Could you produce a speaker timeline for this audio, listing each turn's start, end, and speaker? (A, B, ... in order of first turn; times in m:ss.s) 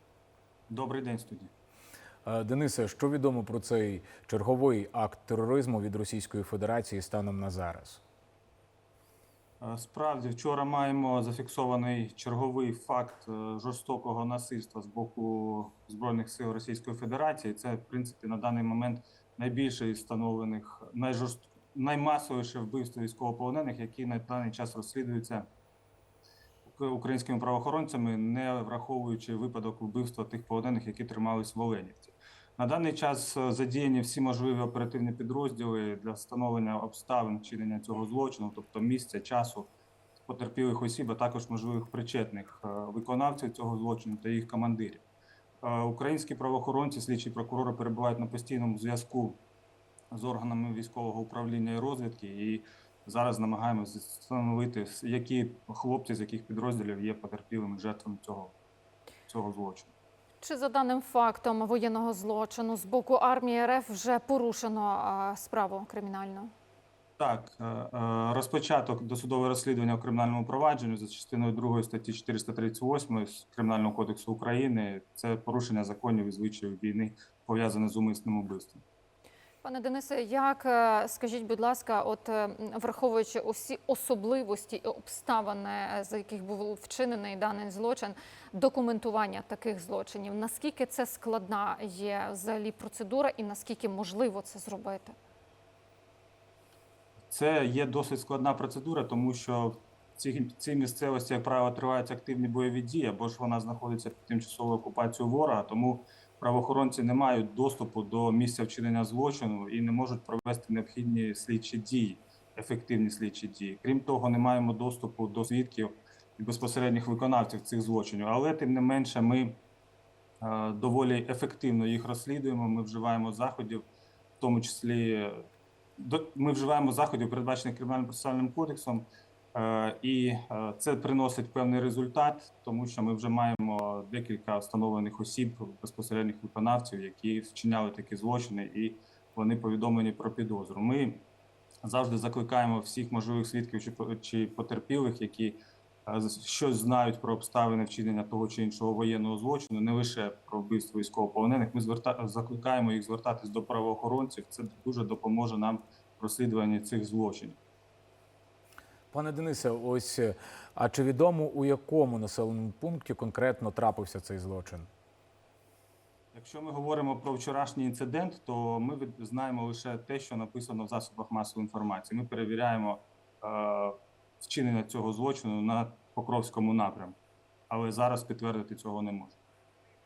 0:00.7-0:01.5 A
0:02.2-0:08.0 B
0:09.6-0:25.5 A
0:26.7-0:39.7 A
0:40.2-0:45.0 A
0:45.6-0:49.4 A
0:50.1-0:58.6 A
0:59.3-0:59.9 A
1:00.4-1:06.5 C
1:07.2-1:18.8 A
1:19.6-1:35.2 C
1:37.3-1:59.6 A
2:00.4-2:03.8 A
2:04.4-2:05.4 A
2:06.0-2:21.2 A
2:21.8-2:37.6 A
2:39.1-2:44.9 B
2:46.3-2:57.2 A
2:57.7-2:59.4 A